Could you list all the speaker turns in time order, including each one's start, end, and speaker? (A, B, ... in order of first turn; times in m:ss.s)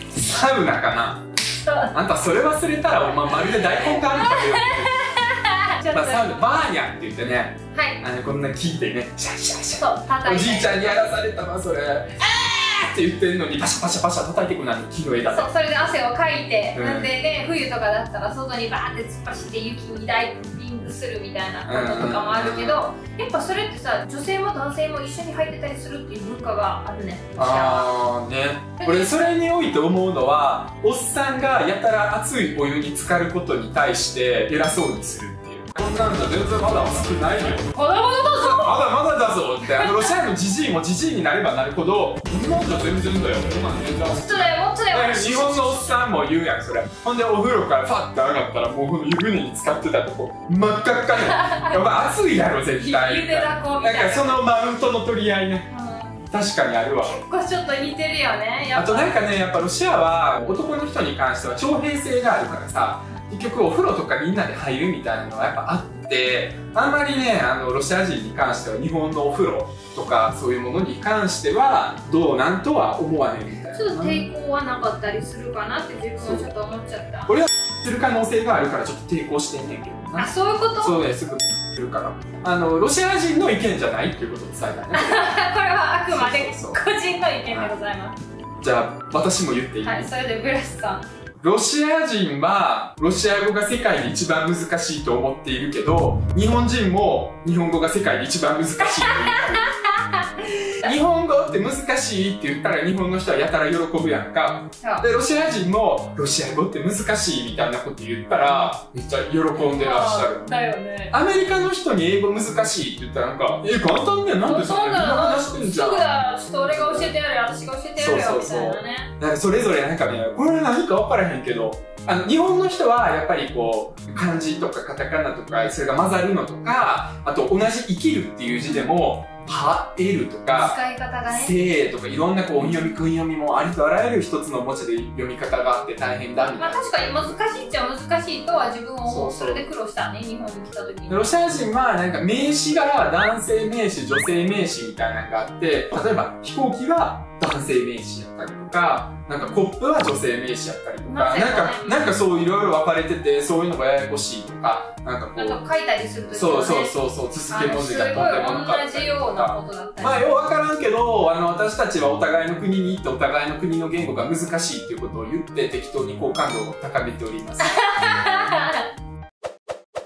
0:00.1-0:01.3 A
0:01.6-0:01.9 B
0:01.9-0:05.0 A
0:03.3-0:06.4 B
0:05.9-0:15.5 A
0:07.7-0:08.0 B
0:09.8-0:11.1 B
0:15.3-0:27.9 B
0:16.7-0:17.1 A
0:21.7-0:22.9 A
0:27.4-0:37.7 A
0:28.8-0:29.3 B
0:37.7-0:38.8 B
0:38.3-0:55.7 A
0:39.6-0:40.2 B
0:44.2-0:46.1 B
0:51.2-0:51.8 B
0:52.8-0:54.4 B
0:55.7-0:56.2 B
0:56.3-0:57.1 A
0:57.0-0:59.2 B
0:58.8-1:14.3 A
1:13.7-1:17.3 B
1:16.2-1:16.5 A
1:17.3-1:25.4 A
1:20.2-1:21.0 B
1:24.9-1:28.2 B
1:26.1-1:26.8 A
1:27.5-1:27.7 A
1:28.6-1:30.1 A
1:29.8-1:31.1 B
1:31.4-1:39.7 A
1:38.8-1:40.9 B
1:40.8-1:50.5 A
1:44.8-1:45.1 B
1:49.5-1:51.1 B
1:51.1-1:57.1 A
1:54.4-1:59.1 B
1:58.0-2:17.3 A
2:10.5-2:11.6 B
2:16.6-2:21.3 B
2:19.1-2:19.6 A
2:21.1-2:35.6 A
2:31.1-2:32.2 B
2:35.3-2:36.9 B
2:36.3-2:47.8 A
2:37.5-2:40.3 B
2:47.6-2:48.9 B